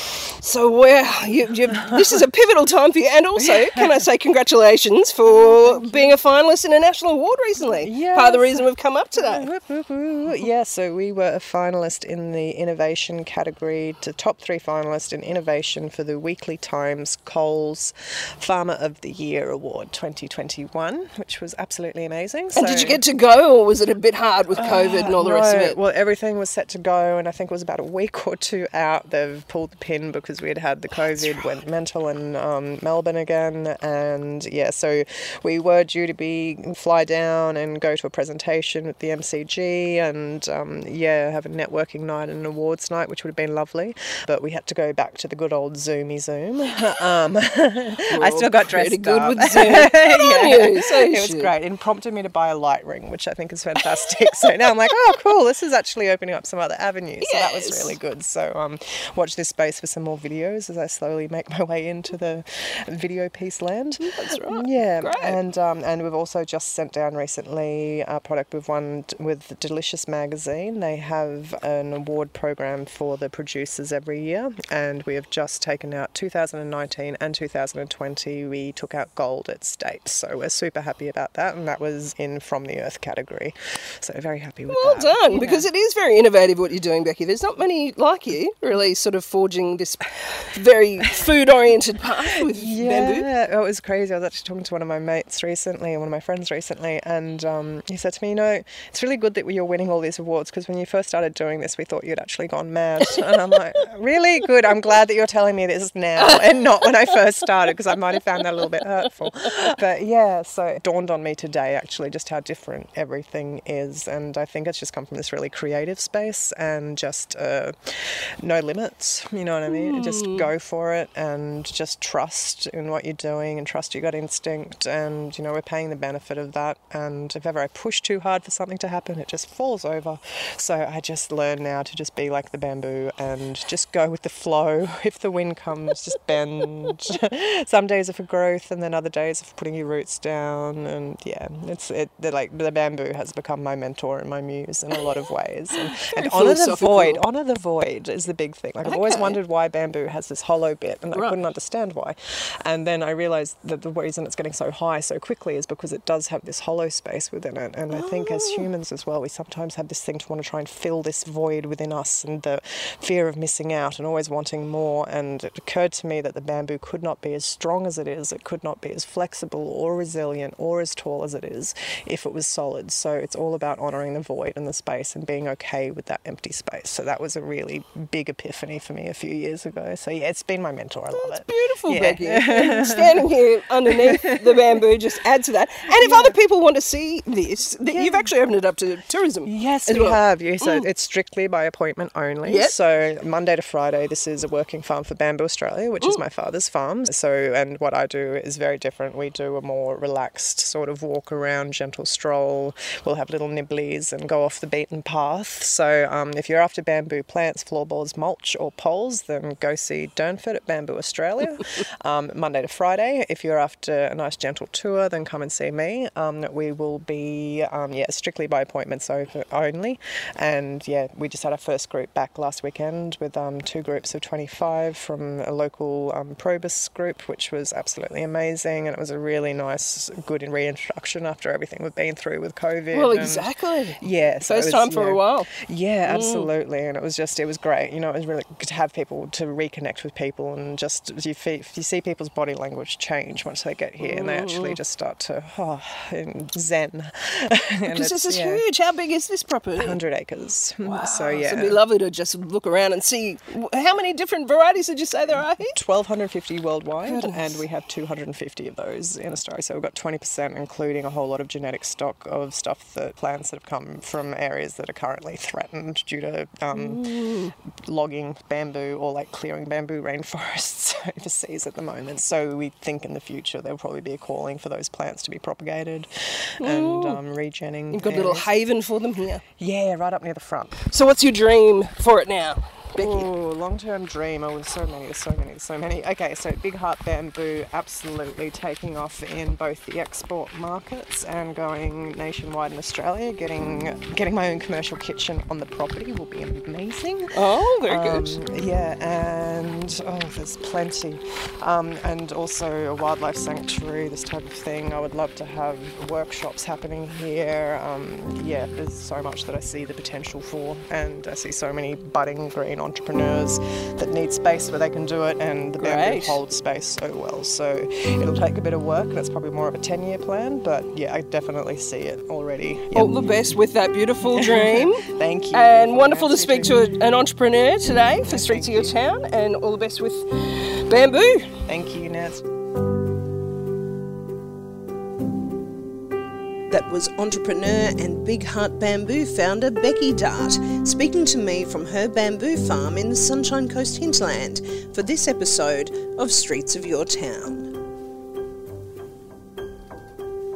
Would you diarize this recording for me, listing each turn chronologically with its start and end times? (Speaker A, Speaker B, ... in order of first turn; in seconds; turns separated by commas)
Speaker A: 0.4-9.5, Speaker B: 5.2-6.2, Speaker B: 7.8-23.0, Speaker A: 22.5-25.8, Speaker B: 24.5-85.7, Speaker A: 48.1-51.5, Speaker A: 53.8-54.6, Speaker A: 57.2-58.0, Speaker A: 64.0-65.4, Speaker A: 84.7-93.3, Speaker B: 92.4-183.3, Speaker A: 103.1-103.4, Speaker A: 106.2-108.8, Speaker A: 119.7-120.5, Speaker A: 145.7-147.2, Speaker A: 148.8-149.4, Speaker A: 151.1-151.4, Speaker A: 157.9-158.7, Speaker A: 181.1-190.8, Speaker B: 183.9-184.8, Speaker B: 185.9-186.4, Speaker B: 187.8-188.3, Speaker B: 189.4-248.6, Speaker A: 192.4-192.7, Speaker A: 232.9-235.5, Speaker A: 236.1-236.5, Speaker A: 244.0-244.8, Speaker A: 247.9-250.0, Speaker B: 249.8-251.8, Speaker A: 250.8-255.7, Speaker B: 255.6-267.3, Speaker A: 257.0-257.6, Speaker A: 266.7-267.5, Speaker B: 267.9-278.5, Speaker A: 276.6-277.2, Speaker A: 277.9-279.4, Speaker B: 279.6-280.8, Speaker A: 280.8-283.3, Speaker B: 282.9-297.4, Speaker A: 297.3-298.4, Speaker B: 297.9-323.2, Speaker A: 315.8-316.4, Speaker A: 322.9-331.5, Speaker B: 324.3-327.0, Speaker B: 328.2-329.0, Speaker B: 331.7-332.4, Speaker A: 336.7-340.0, Speaker C: 337.7-347.6, Speaker A: 346.0-347.6